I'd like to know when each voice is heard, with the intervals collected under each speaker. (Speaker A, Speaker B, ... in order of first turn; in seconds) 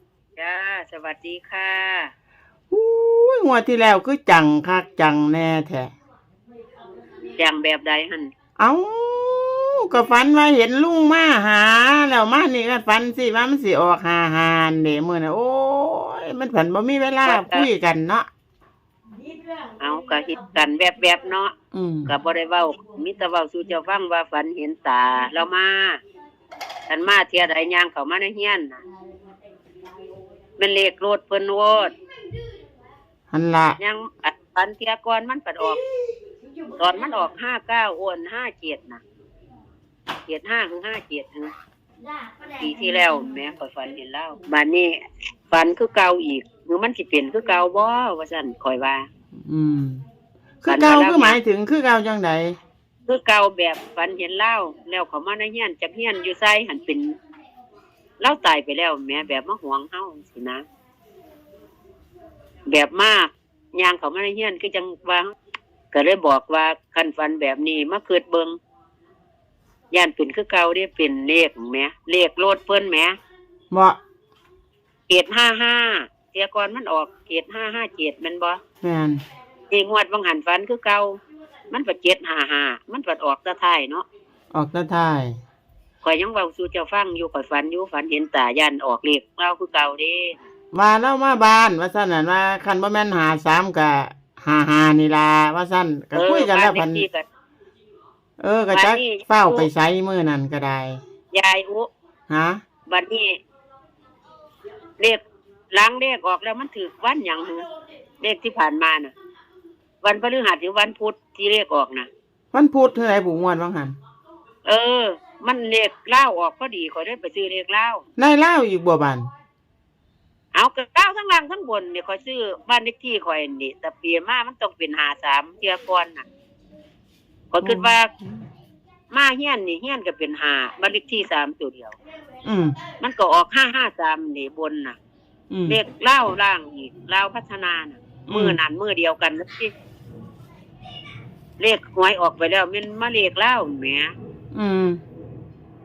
Speaker A: 0.4-2.1, 7.4-8.3, 17.2-17.7, 19.8-21.5, 22.1-26.0, 26.9-28.8, 30.6-31.9, 33.8-35.8, 36.8-39.0, 40.3-41.5, 42.5-49.1, 50.7-51.4, 53.1-57.1, 58.2-60.6, 62.7-65.3, 65.9-68.5, 69.9-73.2, 75.1-78.6, 79.7-84.0, 86.0-90.4, 96.1-97.2, 98.7-99.7, 101.3-101.9, 102.8-103.4, 105.7-107.7, 108.2-109.1, 110.0-112.1, 114.6-118.0, 120.5-126.2, 127.5-128.1, 129.1-131.9, 132.9-135.0, 135.7-139.7, 141.6-144.1
Speaker B: 2.7-5.9, 8.6-18.3, 21.7-22.1, 33.3-33.8, 49.5-50.0, 50.6-52.6, 73.7-74.0, 78.8-79.2, 84.5-85.3, 90.7-97.0, 98.4-101.0, 102.3-102.6, 112.5-113.9, 118.2-119.3, 127.6-128.4, 132.4-132.8, 135.5-135.8, 138.2-138.6, 144.5-145.0